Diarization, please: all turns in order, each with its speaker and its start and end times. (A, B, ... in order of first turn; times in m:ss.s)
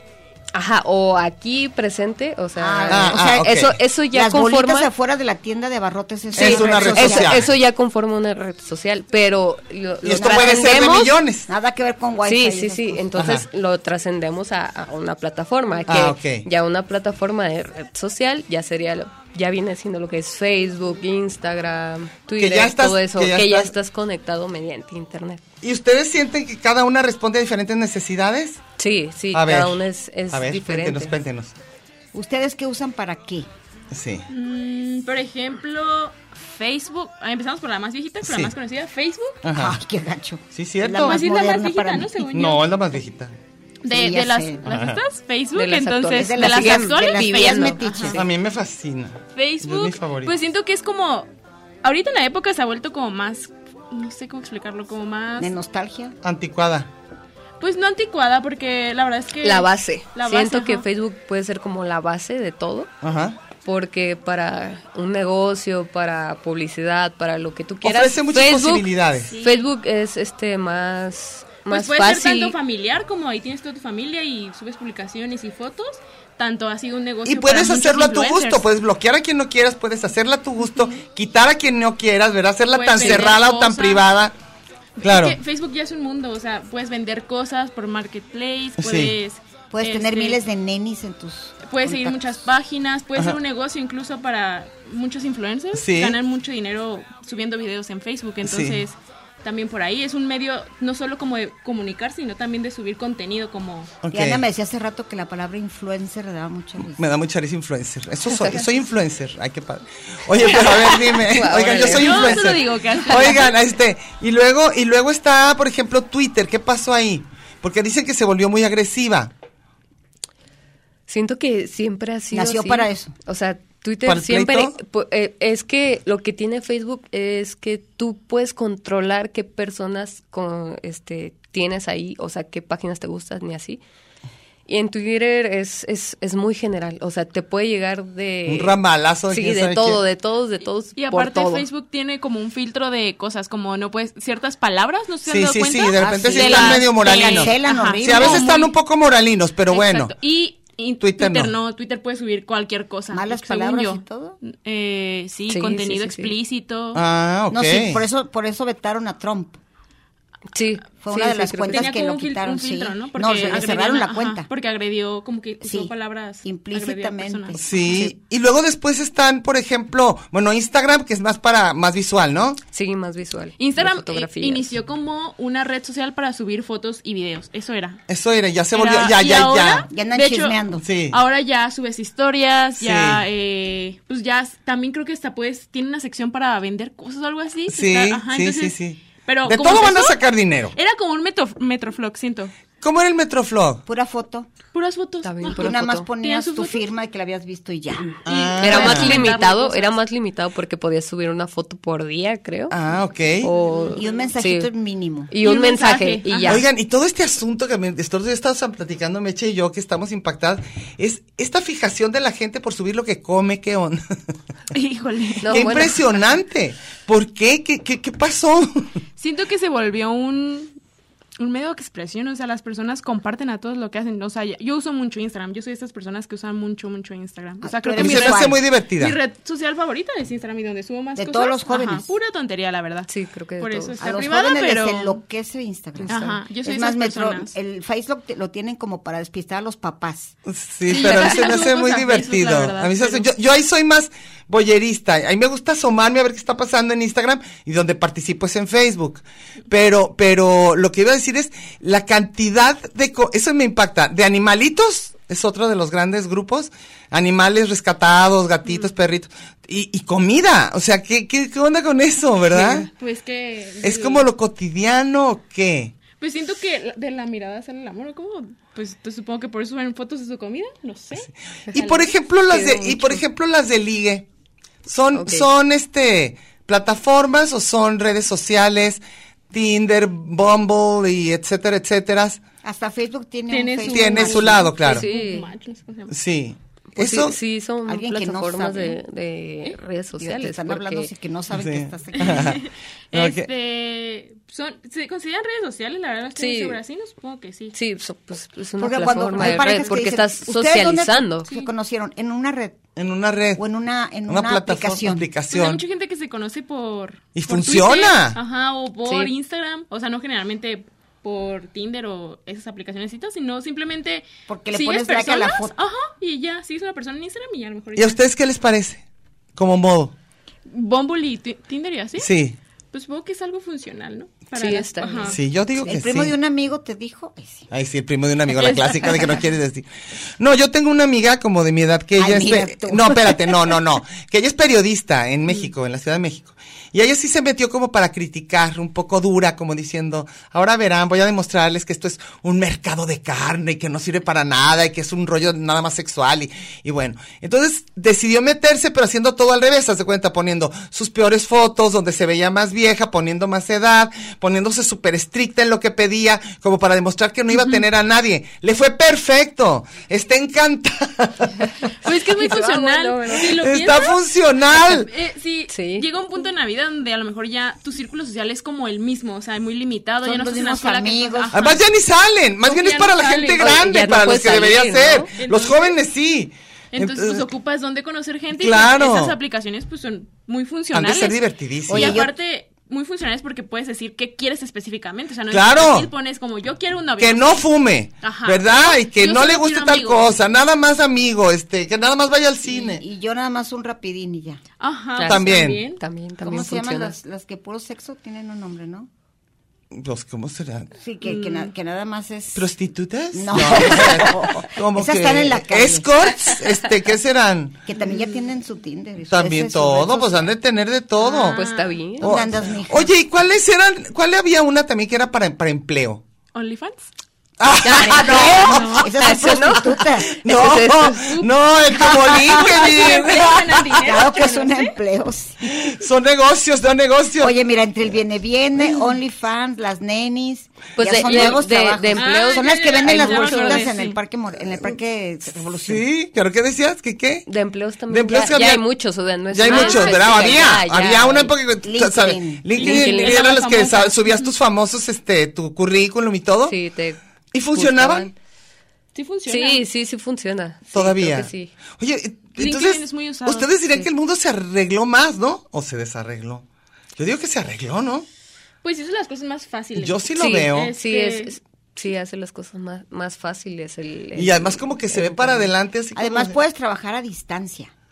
0:00.5-0:04.9 A
0:02.6-0:03.4 B
0:02.9-0:03.8 C
0:04.1-0:07.4 B
0:06.4-0:07.5 C
0:06.4-0:11.1 A
0:10.0-0:11.5 C
0:10.2-0:10.8 B
0:11.5-0:13.1 B
0:12.2-0:25.4 A
0:13.2-0:13.4 C
0:15.9-0:16.4 C
0:22.4-0:23.7 C
0:25.6-0:28.6 C
0:28.8-0:31.1 A
0:29.3-0:31.6 C
0:32.1-0:33.5 B
0:33.9-0:34.2 C
0:34.3-0:39.4 D
0:38.2-0:38.5 C
0:39.4-0:39.8 C
0:39.5-0:42.1 B
0:40.5-0:41.2 C
0:41.0-0:42.6 D
0:42.3-0:43.4 C
0:43.8-0:48.2 D
0:43.9-0:44.6 B
0:44.6-0:45.0 C
0:45.6-0:48.0 A
0:46.2-0:48.2 B
0:48.1-0:50.4 C
0:49.4-0:51.3 D
0:51.8-0:55.5 D
0:55.4-0:56.2 B
0:56.2-0:56.9 C
0:57.6-1:00.8 D
0:59.4-1:02.9 A
1:03.0-1:03.4 C
1:03.6-1:12.6 A
1:07.8-1:09.3 C
1:09.3-1:09.6 D
1:11.7-1:18.6 D
1:17.2-1:24.4 C
1:22.7-1:24.0 D
1:25.0-1:30.4 D
1:25.0-1:25.4 C
1:28.8-1:29.1 C
1:29.7-1:32.4 B
1:31.6-1:43.9 D
1:35.7-1:36.2 C
1:38.4-1:38.8 C
1:44.0-1:44.4 C
1:44.1-1:47.0 B
1:46.8-1:59.3 C
1:48.3-1:48.6 A
1:50.6-1:50.9 D
1:51.1-1:52.4 A
1:51.7-1:53.5 D
2:01.1-2:13.8 A
2:02.3-2:03.1 B
2:04.0-2:04.7 C
2:14.7-2:18.8 A
2:18.5-2:20.0 C
2:19.3-2:21.6 A
2:21.0-2:28.7 D
2:25.3-2:30.1 C
2:26.0-2:28.5 B
2:29.7-2:37.0 D
2:31.0-2:31.5 C
2:33.1-2:34.4 B
2:35.5-2:36.3 A
2:36.9-2:38.0 C
2:37.5-2:39.6 B
2:40.5-2:41.9 A
2:41.0-2:44.5 B
2:41.7-2:47.6 D
2:45.6-2:45.9 B
2:46.4-2:48.1 B
2:47.6-2:52.6 C
2:52.7-2:54.7 A
2:53.6-2:58.0 D
2:58.1-2:59.9 C
2:58.7-3:00.6 D
2:59.9-3:00.9 B
3:00.8-3:01.2 C
3:01.1-3:10.2 D
3:02.8-3:03.2 C
3:07.7-3:10.8 C
3:10.7-3:12.5 D
3:12.8-3:13.8 C
3:13.9-3:14.5 B
3:14.7-3:16.9 D
3:15.2-3:16.1 A
3:15.5-3:18.1 B
3:18.2-3:19.1 C
3:18.3-3:20.0 D
3:18.6-3:22.7 A
3:22.7-3:23.5 C
3:23.4-3:24.7 A
3:23.6-3:24.3 D
3:24.0-3:25.3 B
3:25.3-3:26.6 A
3:25.4-3:26.6 D
3:26.4-3:34.0 C
3:34.7-3:36.0 D
3:35.4-3:36.0 A
3:35.5-3:38.9 C
3:39.2-3:40.7 D
3:41.4-3:55.2 D
3:47.6-3:48.6 B
3:48.0-3:49.2 C
3:51.2-3:52.1 B
3:53.1-3:54.0 A
3:54.0-4:00.3 B
3:56.0-3:57.5 D
4:00.4-4:22.9 C
4:00.9-4:03.3 D
4:22.6-4:24.3 D
4:23.8-4:25.9 C
4:26.2-4:32.2 D
4:31.7-4:34.3 C
4:32.5-4:33.2 A
4:34.8-4:42.4 C
4:35.1-4:35.5 A
4:42.6-4:44.6 B
4:43.5-4:46.2 D
4:43.8-4:45.0 C
4:44.8-4:45.5 A
4:46.1-4:47.4 C
4:47.0-4:51.1 A
4:47.9-4:49.0 B
4:50.2-4:52.6 B
4:51.5-4:53.5 C
4:52.2-4:57.7 D
4:56.4-4:56.8 A
4:57.7-5:01.5 A
4:58.8-5:02.8 B
4:59.4-4:59.9 D
5:03.0-5:03.6 C
5:03.6-5:05.3 B
5:04.3-5:05.8 C
5:05.5-5:18.2 D
5:07.4-5:08.4 C
5:14.5-5:15.7 B
5:18.0-5:19.0 C
5:19.6-5:20.1 C
5:20.7-5:22.3 D
5:22.2-5:22.6 C
5:22.9-5:25.4 D
5:24.5-5:25.4 A
5:25.3-5:26.3 C
5:25.8-5:27.7 B
5:27.7-5:29.9 C
5:28.5-5:29.4 D
5:30.4-6:01.9 C
5:32.2-5:33.7 B
5:57.5-5:57.8 D
6:02.0-6:04.2 D
6:02.3-6:03.5 A
6:03.4-6:05.1 C
6:04.7-6:11.8 D
6:05.7-6:06.0 A
6:10.2-6:11.5 B
6:11.5-6:17.4 C
6:12.6-6:13.8 D
6:13.6-6:15.3 A
6:15.4-6:16.0 D
6:16.9-6:21.4 D
6:18.5-6:19.4 C
6:20.9-6:22.2 C
6:21.9-6:22.3 B
6:21.9-6:27.6 D
6:25.5-6:26.1 C
6:27.2-6:33.0 C
6:28.2-6:30.3 D
6:32.7-6:34.6 B
6:34.8-6:36.0 D
6:35.2-6:37.2 A
6:35.2-6:35.9 C
6:36.4-6:39.1 B
6:39.9-6:40.9 C
6:41.0-6:42.6 B
6:41.2-6:41.7 D
6:42.6-6:47.8 C
6:43.3-6:46.0 B
6:47.9-6:50.5 B
6:49.3-6:51.6 C
6:51.2-6:52.0 D
6:51.5-6:52.3 A
6:52.2-6:53.1 B
6:52.2-6:56.2 C
6:56.5-6:57.1 D
6:57.6-6:59.0 C
6:57.8-7:01.4 A
6:58.1-7:00.3 B
6:58.7-6:59.0 D
7:00.2-7:04.1 C
7:02.0-7:05.0 D
7:04.0-7:05.7 B
7:05.6-7:07.6 C
7:07.4-7:16.0 B
7:11.0-7:13.9 A
7:12.2-7:14.2 D
7:15.8-7:17.4 C
7:17.5-7:21.5 A
7:18.1-7:18.8 C
7:19.5-7:26.8 C
7:19.7-7:20.4 D
7:21.8-7:22.7 B
7:22.8-7:23.4 A
7:22.8-7:24.4 D
7:26.6-7:27.2 A
7:27.5-7:28.3 C
7:27.7-7:28.4 A
7:29.1-7:29.8 D
7:29.5-7:31.7 A
7:30.9-7:36.6 C
7:32.6-7:33.7 D
7:37.2-7:38.3 C
7:38.8-7:41.6 D
7:40.0-7:40.9 C
7:40.4-7:45.7 A
7:44.3-7:46.6 C
7:46.2-7:47.9 B